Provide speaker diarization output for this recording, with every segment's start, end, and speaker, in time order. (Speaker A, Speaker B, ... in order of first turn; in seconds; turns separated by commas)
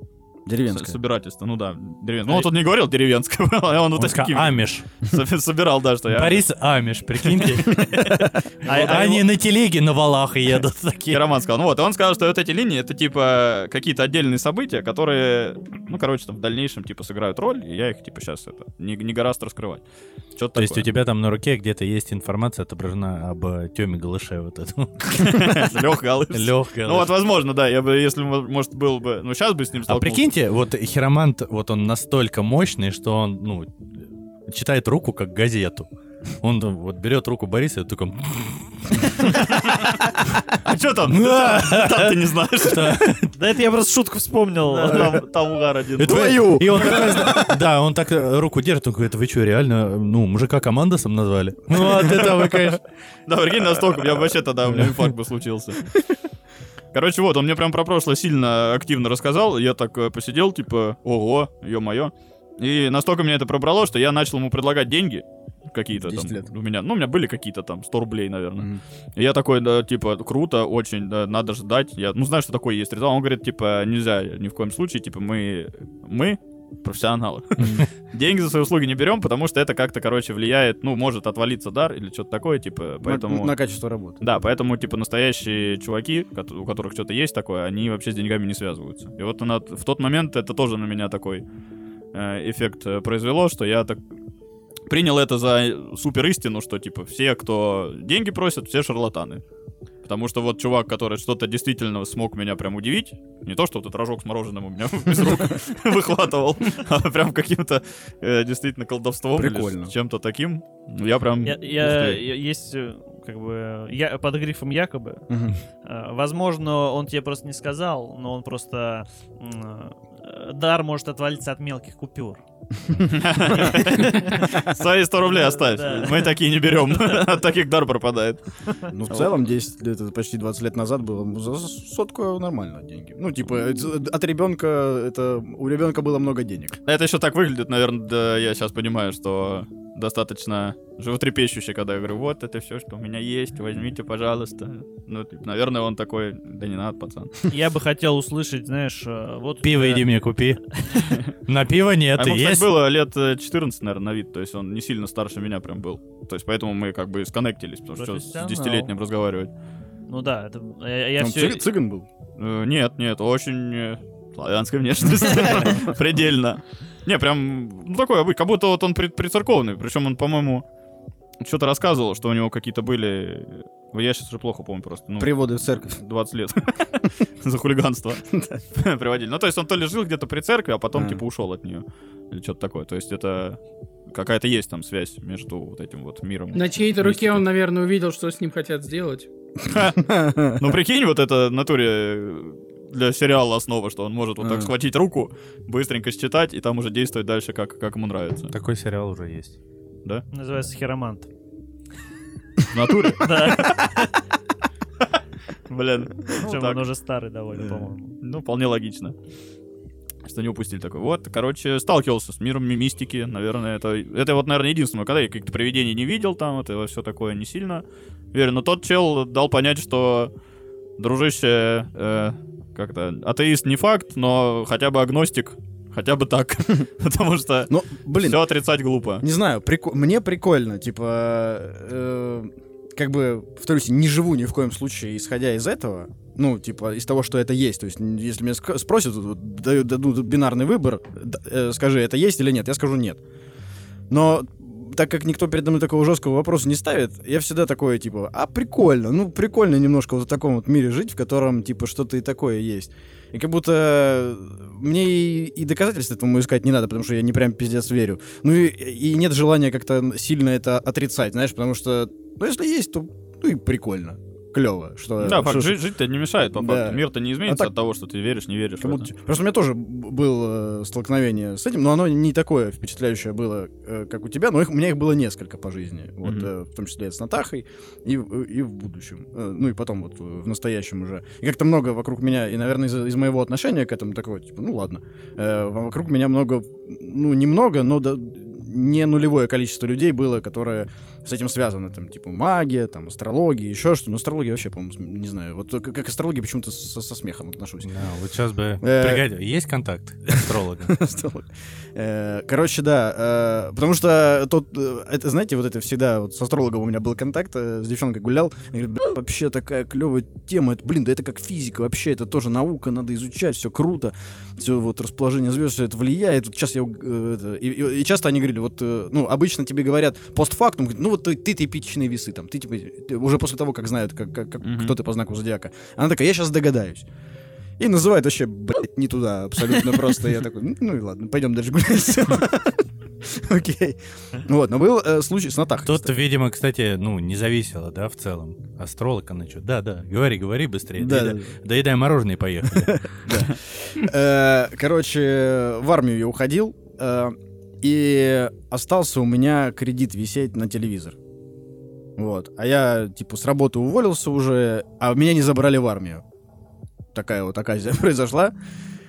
Speaker A: 0.5-1.0, Speaker B: 0.7-6.5, Speaker C: 4.0-4.8, Speaker C: 6.1-11.2, Speaker B: 7.2-8.9, Speaker D: 8.6-9.2, Speaker B: 11.1-20.9, Speaker C: 20.6-25.7, Speaker B: 25.1-30.2, Speaker C: 26.3-27.1, Speaker C: 29.9-35.9, Speaker C: 36.4-39.4, Speaker B: 39.2-40.0, Speaker B: 40.6-43.1, Speaker C: 41.1-43.3, Speaker D: 43.4-45.2, Speaker B: 44.7-47.4, Speaker A: 44.9-45.2, Speaker C: 46.0-52.8, Speaker A: 46.0-47.5, Speaker B: 51.8-52.7, Speaker B: 53.3-55.9, Speaker B: 56.9-83.5, Speaker A: 66.0-66.5, Speaker A: 77.6-77.9, Speaker A: 83.0-84.2, Speaker B: 84.2-91.4, Speaker B: 92.1-94.0, Speaker B: 94.9-99.4, Speaker B: 100.0-112.2, Speaker A: 109.3-109.9, Speaker D: 111.4-115.3, Speaker A: 115.3-115.6, Speaker D: 115.8-122.4, Speaker B: 123.1-129.3, Speaker D: 123.5-124.7, Speaker D: 125.2-127.2, Speaker A: 128.9-136.8, Speaker B: 136.8-147.4, Speaker D: 147.5-150.1, Speaker C: 149.6-150.6, Speaker C: 151.4-152.7, Speaker B: 152.2-159.5, Speaker D: 157.9-158.9, Speaker D: 160.1-161.7, Speaker A: 161.2-162.1, Speaker B: 162.4-170.6, Speaker B: 171.4-183.6, Speaker A: 175.2-176.0, Speaker A: 178.3-178.6, Speaker A: 180.9-181.2, Speaker B: 184.1-186.7, Speaker E: 186.5-189.3, Speaker C: 187.0-187.4, Speaker A: 189.6-190.7, Speaker B: 189.7-190.0, Speaker B: 190.6-198.5, Speaker A: 194.4-194.7, Speaker C: 198.5-199.6, Speaker D: 200.3-201.3, Speaker B: 202.7-203.7, Speaker D: 203.2-204.1, Speaker B: 205.7-206.8, Speaker D: 206.2-208.2, Speaker B: 208.2-209.1, Speaker B: 210.2-220.3, Speaker B: 221.0-229.2, Speaker A: 227.7-228.4, Speaker A: 229.2-243.2, Speaker A: 244.1-265.8, Speaker B: 265.2-269.1, Speaker A: 266.6-267.7, Speaker A: 268.8-297.9, Speaker C: 297.8-300.9, Speaker A: 298.8-299.2, Speaker A: 300.3-327.1, Speaker B: 324.6-324.9, Speaker A: 327.8-336.1, Speaker C: 335.9-343.1, Speaker A: 341.0-341.6, Speaker A: 342.8-351.2, Speaker A: 352.2-356.2, Speaker A: 357.1-358.5